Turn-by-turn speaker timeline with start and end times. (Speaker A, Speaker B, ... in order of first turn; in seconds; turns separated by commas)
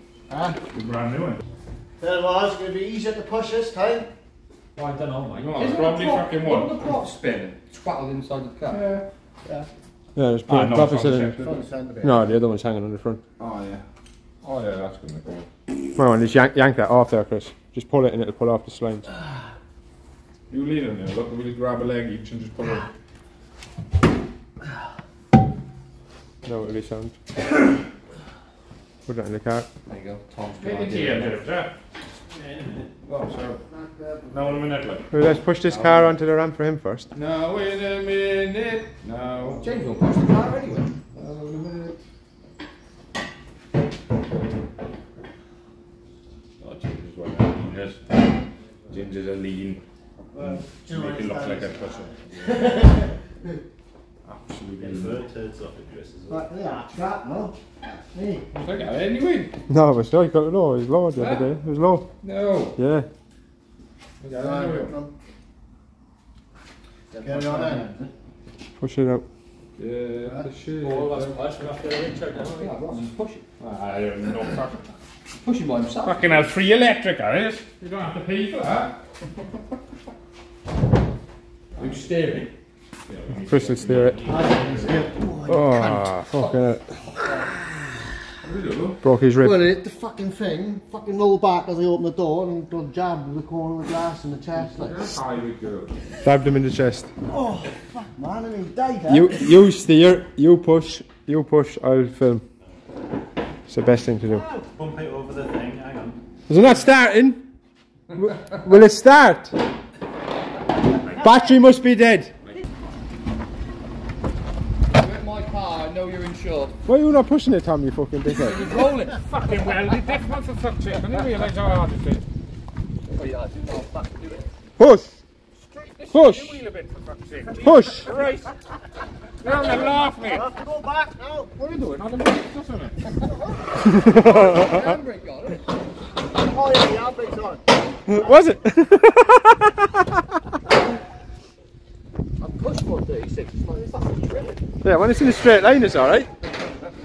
Speaker A: 0.3-0.6, Speaker B: 0.7-1.4, Speaker A: 2.0-4.1, Speaker C: 4.8-8.8, Speaker B: 5.3-6.7, Speaker B: 8.7-9.0, Speaker D: 10.2-11.4, Speaker B: 10.5-11.5, Speaker A: 11.2-12.3, Speaker D: 12.0-13.2, Speaker B: 13.4-13.8, Speaker B: 14.4-15.5, Speaker D: 15.9-19.1, Speaker B: 20.5-22.9, Speaker D: 26.4-27.2, Speaker D: 29.1-29.7, Speaker C: 29.9-31.4, Speaker B: 30.6-31.7, Speaker B: 33.1-33.6, Speaker A: 33.6-34.8, Speaker B: 34.3-35.1, Speaker D: 35.1-37.1, Speaker C: 35.6-36.2, Speaker B: 37.1-39.6, Speaker C: 39.5-40.9, Speaker B: 41.1-42.0, Speaker B: 46.6-48.0, Speaker B: 48.9-49.8, Speaker A: 50.3-53.6, Speaker B: 50.9-52.1, Speaker B: 54.3-55.2, Speaker E: 54.8-56.5, Speaker A: 56.3-58.5, Speaker B: 58.5-59.5, Speaker D: 59.7-62.1, Speaker B: 61.2-61.5, Speaker B: 62.2-62.8, Speaker D: 62.8-63.1, Speaker B: 64.2-64.9, Speaker A: 64.3-65.1, Speaker A: 67.2-67.9, Speaker C: 67.2-68.1, Speaker D: 68.8-69.2, Speaker B: 69.8-71.4, Speaker A: 70.2-70.5, Speaker C: 70.8-73.5, Speaker E: 72.3-72.7, Speaker B: 73.6-74.9, Speaker C: 75.4-76.5, Speaker B: 76.0-79.0, Speaker C: 81.8-82.5, Speaker B: 83.1-84.3, Speaker E: 83.4-85.1, Speaker D: 83.5-84.3, Speaker A: 84.2-86.2, Speaker D: 85.5-86.9, Speaker C: 86.3-86.7, Speaker C: 87.2-87.5, Speaker B: 88.4-89.0, Speaker D: 89.0-89.6, Speaker A: 89.4-95.2, Speaker B: 94.7-95.9, Speaker D: 96.2-97.1, Speaker A: 97.3-99.6, Speaker D: 99.1-102.4, Speaker D: 103.7-104.5, Speaker A: 104.3-104.7, Speaker E: 104.8-106.2, Speaker D: 106.5-107.4, Speaker D: 108.1-109.5, Speaker D: 111.1-112.3, Speaker C: 114.9-116.8, Speaker D: 116.9-118.6, Speaker C: 118.2-120.0, Speaker B: 119.1-122.3, Speaker C: 120.9-121.4, Speaker C: 123.1-124.5, Speaker D: 124.8-125.2, Speaker B: 125.7-128.1, Speaker D: 126.1-126.6, Speaker C: 127.5-128.5, Speaker D: 127.6-128.1, Speaker B: 129.4-130.5, Speaker A: 130.2-131.6, Speaker B: 131.6-133.1, Speaker C: 133.1-135.7, Speaker D: 133.8-134.9, Speaker A: 136.2-137.6, Speaker D: 138.1-140.0, Speaker C: 142.4-144.6, Speaker D: 144.8-146.3